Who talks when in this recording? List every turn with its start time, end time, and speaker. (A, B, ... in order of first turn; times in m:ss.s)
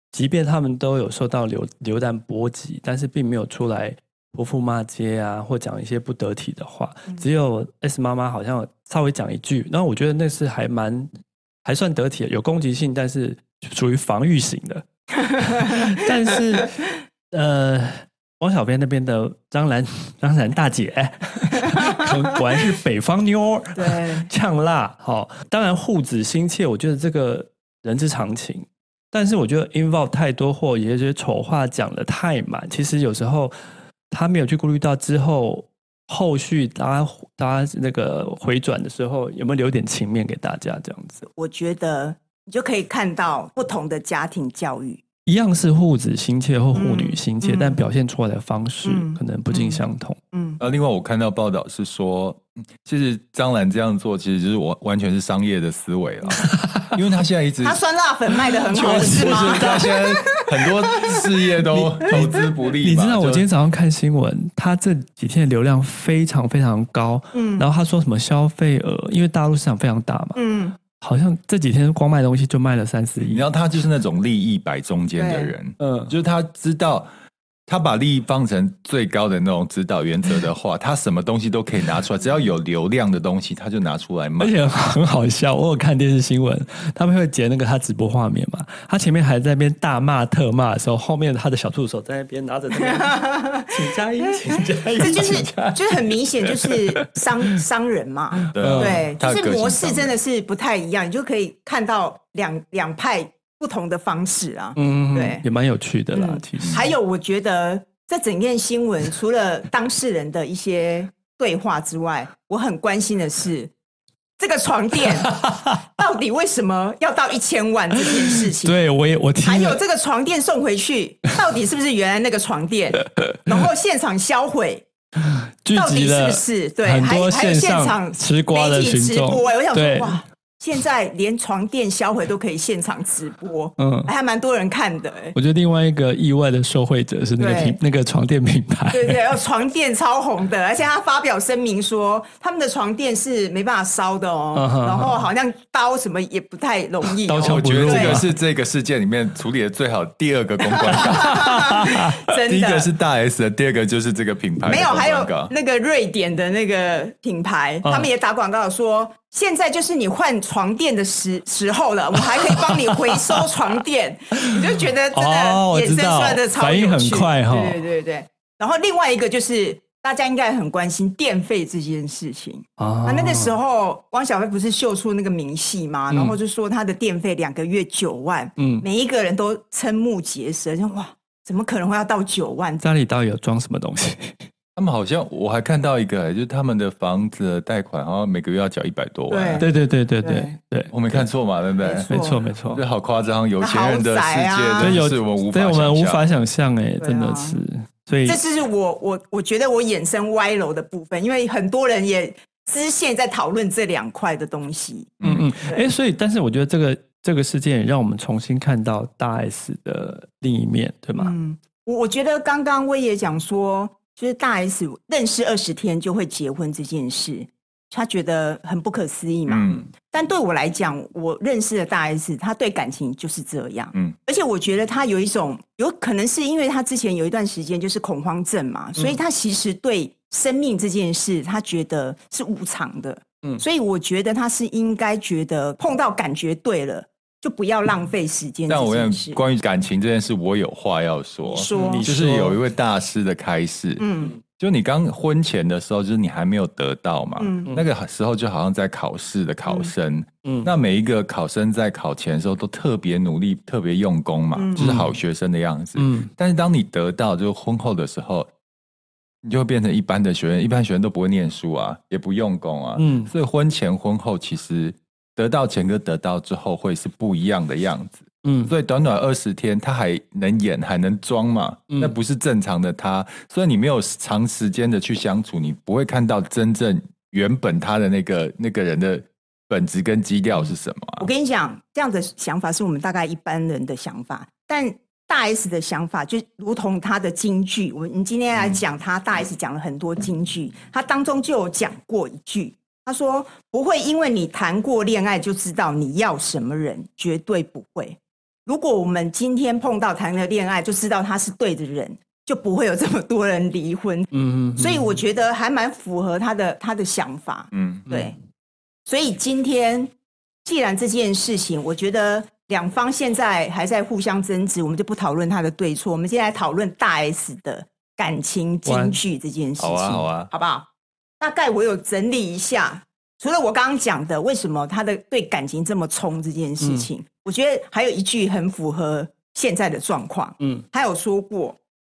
0:00.1-0:11.1 A
0:11.6-0:33.6 A
0:23.8-0:24.3 B
0:34.1-0:41.2 A
0:41.3-0:45.0 B
0:45.3-0:50.2 A
0:46.8-0:47.8 B
0:48.8-0:50.6 B
0:50.6-0:57.8 C
0:56.4-0:57.0 A
0:57.6-1:01.2 B
0:58.7-0:59.9 A
0:58.8-1:03.5 C
1:01.7-1:10.4 A
1:07.3-1:07.7 B
1:10.4-1:10.8 B
1:10.9-1:13.4 A
1:13.3-1:17.1 C
1:15.2-1:15.5 B
1:15.8-1:16.1 A
1:17.7-1:24.5 C
1:24.4-1:37.6 A
1:32.9-1:33.7 B
1:34.2-1:45.5 B
1:38.5-1:39.1 A
1:38.5-1:40.2 C
1:44.8-1:46.9 A
1:46.1-1:53.7 B
1:54.4-1:55.4 B
1:55.2-1:55.8 A
1:56.0-1:58.8 B
1:58.0-1:59.8 A
1:59.4-2:04.9 B
2:03.0-2:03.5 A
2:05.2-2:10.2 A
2:05.8-2:15.4 B
2:13.8-2:14.1 A
2:15.3-2:19.3 A
2:17.4-2:17.8 B
2:18.9-2:28.2 B
2:24.5-2:25.3 A
2:27.1-2:28.4 A
2:27.3-2:31.5 C
2:30.9-2:32.3 A
2:30.9-2:32.9 B
2:32.5-2:35.5 C
2:34.6-3:02.8 B
2:37.8-2:38.1 A
2:42.2-2:43.5 A
2:45.1-2:47.8 A
2:52.8-2:53.6 A
2:56.1-2:56.4 A
2:58.6-2:58.8 A
3:02.8-3:04.5 A
3:04.8-3:09.7 C
3:09.3-3:09.7 B
3:09.6-3:11.2 A
3:10.2-3:10.6 B
3:10.9-3:12.1 C
3:11.8-3:12.4 B
3:12.1-3:12.8 A
3:12.7-3:16.2 C
3:13.6-3:15.0 B
3:14.8-3:18.4 A
3:17.0-3:17.6 B
3:18.2-3:25.8 B
3:25.2-3:25.5 C
3:25.2-3:31.3 A
3:31.2-3:59.4 B
3:39.5-3:39.9 C
3:58.7-4:18.5 C
4:01.4-4:02.1 B
4:01.7-4:02.6 A
4:04.0-4:04.4 B
4:07.4-4:07.7 B
4:09.7-4:09.9 B
4:10.4-4:10.7 A
4:14.6-4:14.9 B
4:14.8-4:15.1 A
4:16.0-4:16.3 A
4:19.4-4:41.3 C
4:23.0-4:23.3 A
4:28.4-4:28.7 A
4:31.9-4:32.2 A
4:41.2-5:08.3 B
5:04.3-5:05.2 A
5:07.7-5:08.1 C
5:09.1-5:10.1 B
5:10.6-5:20.9 B
5:18.9-5:19.2 A
5:19.8-5:20.5 C
5:21.4-5:31.8 B
5:26.8-5:27.1 A